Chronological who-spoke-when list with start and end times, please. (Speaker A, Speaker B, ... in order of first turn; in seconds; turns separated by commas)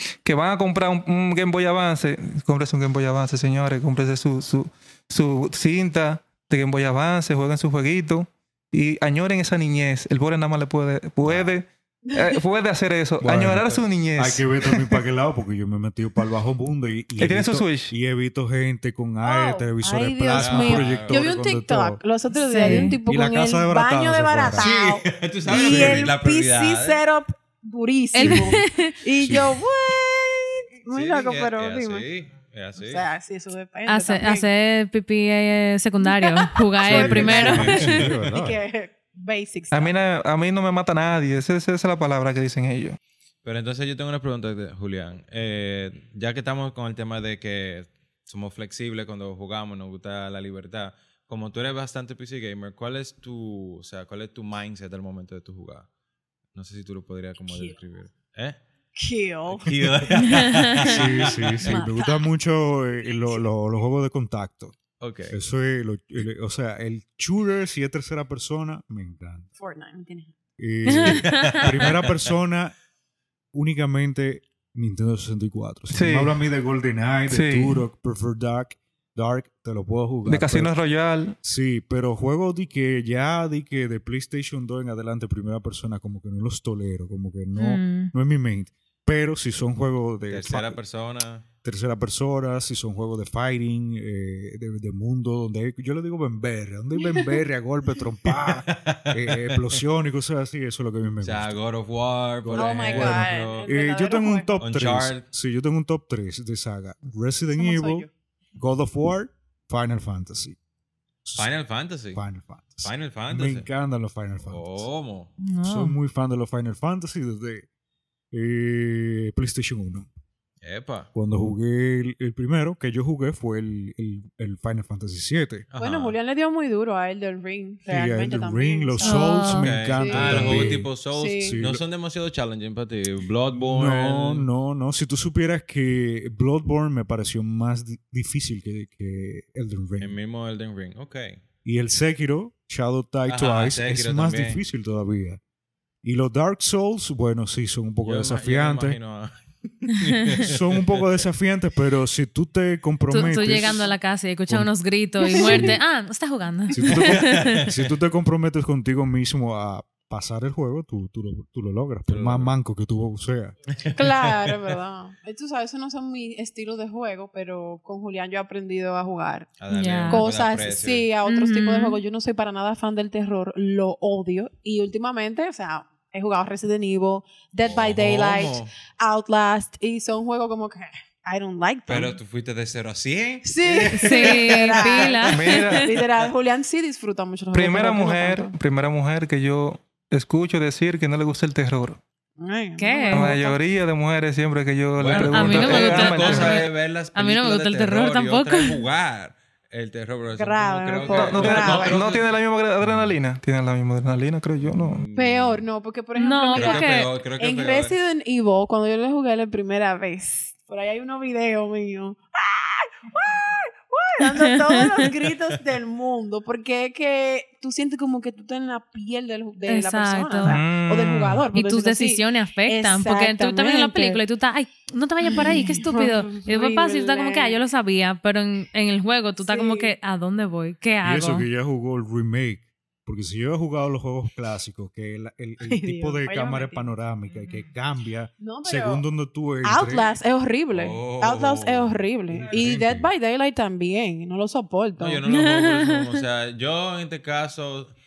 Speaker A: 0.2-15.0, Speaker B: 11.2-11.5, Speaker C: 12.1-12.4, Speaker D: 13.2-22.0, Speaker A: 17.2-17.9, Speaker C: 19.2-32.0, Speaker B: 20.3-21.3, Speaker E: 22.3-22.9, Speaker D: 22.6-24.7, Speaker B: 24.5-27.0, Speaker D: 25.5-26.1, Speaker E: 28.1-28.9, Speaker D: 28.2-28.5, Speaker D: 29.2-29.6, Speaker B: 30.9-33.0, Speaker C: 32.8-34.5, Speaker E: 33.9-37.9, Speaker C: 36.0-39.9, Speaker D: 36.8-38.6, Speaker B: 37.4-38.2, Speaker A: 39.7-43.0, Speaker B: 43.4-55.9, Speaker B: 56.5-58.6, Speaker C: 57.5-57.7, Speaker C: 59.0-60.3, Speaker B: 59.5-61.8, Speaker E: 60.2-60.8, Speaker D: 60.8-64.8, Speaker C: 61.2-62.3, Speaker B: 65.0-65.3, Speaker D: 65.3-69.5, Speaker C: 69.6-70.3, Speaker D: 70.6-72.7, Speaker E: 70.9-71.7, Speaker B: 71.0-72.3, Speaker D: 73.5-80.7, Speaker A: 75.9-76.4, Speaker A: 77.3-77.8, Speaker A: 80.2-81.3, Speaker D: 81.4-90.8, Speaker E: 87.5-88.1, Speaker B: 90.3-91.4, Speaker D: 91.6-101.6, Speaker B: 98.5-99.8, Speaker B: 101.2-103.7, Speaker D: 102.4-110.6, Speaker C: 102.5-104.5, Speaker B: 104.6-105.2, Speaker C: 107.5-108.1, Speaker D: 111.2-111.5, Speaker B: 111.3-112.2, Speaker D: 112.1-114.8, Speaker B: 112.8-113.7, Speaker B: 114.5-115.3, Speaker E: 115.4-115.9, Speaker D: 115.6-117.7, Speaker D: 118.3-120.1, Speaker B: 120.6-121.1, Speaker D: 121.1-125.7, Speaker B: 125.7-126.2, Speaker C: 125.8-131.6, Speaker D: 127.9-131.8, Speaker E: 129.0-129.7, Speaker B: 129.5-134.5, Speaker D: 133.5-140.2, Speaker B: 140.0-141.4, Speaker D: 141.6-145.4, Speaker B: 143.3-144.6, Speaker D: 146.0-149.0, Speaker B: 148.0-151.2, Speaker D: 150.4-153.8, Speaker E: 153.1-157.7, Speaker D: 154.5-154.7, Speaker C: 155.2-155.7, Speaker D: 156.7-163.6, Speaker B: 156.8-157.8, Speaker B: 162.1-162.5, Speaker B: 163.7-164.6, Speaker C: 163.9-169.5, Speaker B: 169.6-171.1, Speaker E: 169.7-170.2, Speaker C: 170.1-182.2, Speaker E: 171.2-172.0, Speaker B: 177.6-178.7, Speaker B: 181.9-185.3, Speaker C: 183.4-188.6, Speaker E: 183.9-185.8, Speaker A: 185.3-185.9, Speaker A: 187.5-192.0, Speaker C: 192.4-193.6, Speaker E: 192.8-193.4, Speaker A: 193.1-196.6, Speaker B: 195.0-202.3, Speaker E: 195.1-198.8, Speaker C: 200.3-201.9, Speaker A: 201.1-205.0, Speaker D: 202.8-203.1, Speaker B: 204.6-205.6, Speaker C: 205.1-224.2, Speaker E: 206.2-207.1, Speaker B: 206.5-207.9, Speaker E: 214.3-214.8, Speaker E: 219.7-220.6, Speaker A: 220.4-221.4, Speaker E: 221.5-231.4, Speaker C: 225.2-227.6, Speaker C: 229.4-229.9, Speaker D: 231.0-240.1, Speaker C: 235.6-236.9, Speaker C: 238.4-239.0, Speaker C: 239.6-245.2, Speaker B: 240.7-242.6, Speaker D: 242.3-243.1, Speaker B: 245.0-247.9, Speaker E: 245.2-246.2